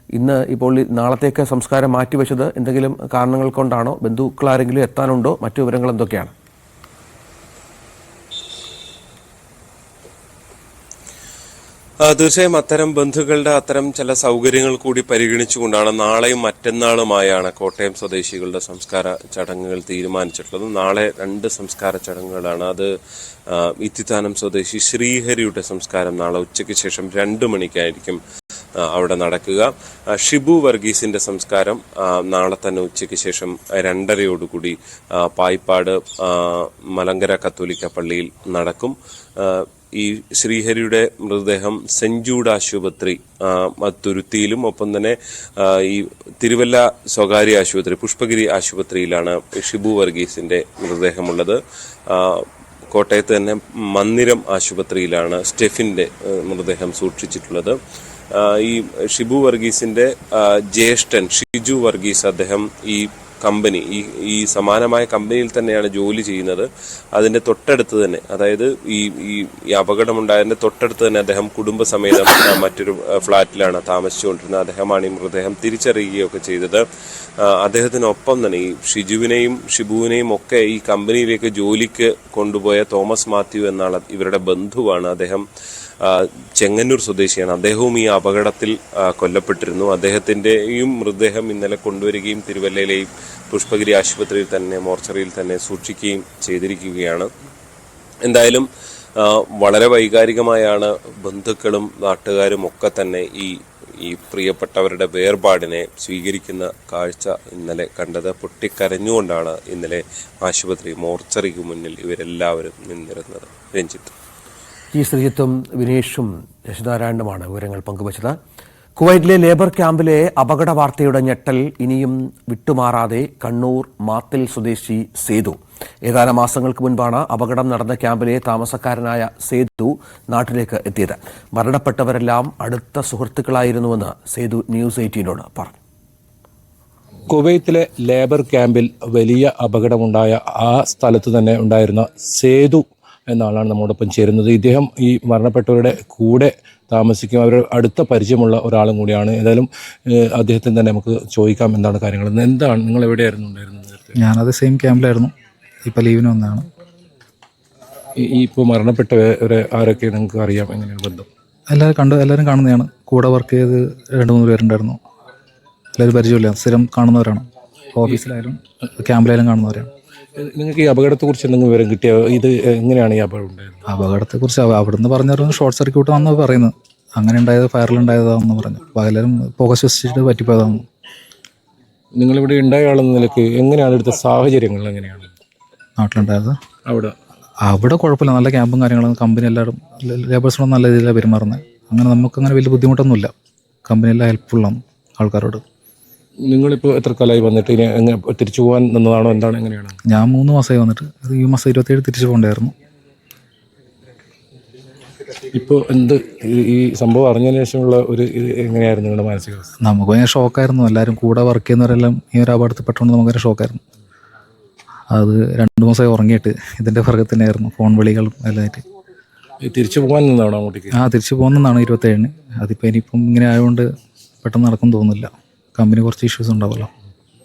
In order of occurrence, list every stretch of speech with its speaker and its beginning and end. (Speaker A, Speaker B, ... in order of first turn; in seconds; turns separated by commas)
Speaker A: 0.1-6.3, Speaker B: 12.0-22.9, Speaker B: 23.5-28.2, Speaker B: 28.8-57.8, Speaker B: 58.3-76.8, Speaker B: 77.4-85.4, Speaker B: 86.0-97.3, Speaker B: 98.2-114.1, Speaker A: 114.9-118.4, Speaker A: 119.0-135.8, Speaker C: 137.3-154.2, Speaker D: 154.2-155.3, Speaker D: 155.8-156.7, Speaker C: 158.2-161.3, Speaker D: 161.7-165.0, Speaker D: 165.9-169.9, Speaker C: 170.3-173.8, Speaker D: 173.9-180.8, Speaker C: 182.2-185.3, Speaker D: 186.0-186.6, Speaker C: 186.9-187.2, Speaker D: 187.6-193.3, Speaker D: 193.9-195.6, Speaker C: 196.4-200.0, Speaker D: 200.1-202.7, Speaker C: 205.5-209.7, Speaker D: 209.8-213.8, Speaker D: 215.1-218.8, Speaker C: 219.6-221.0, Speaker D: 220.9-223.9, Speaker D: 224.4-226.9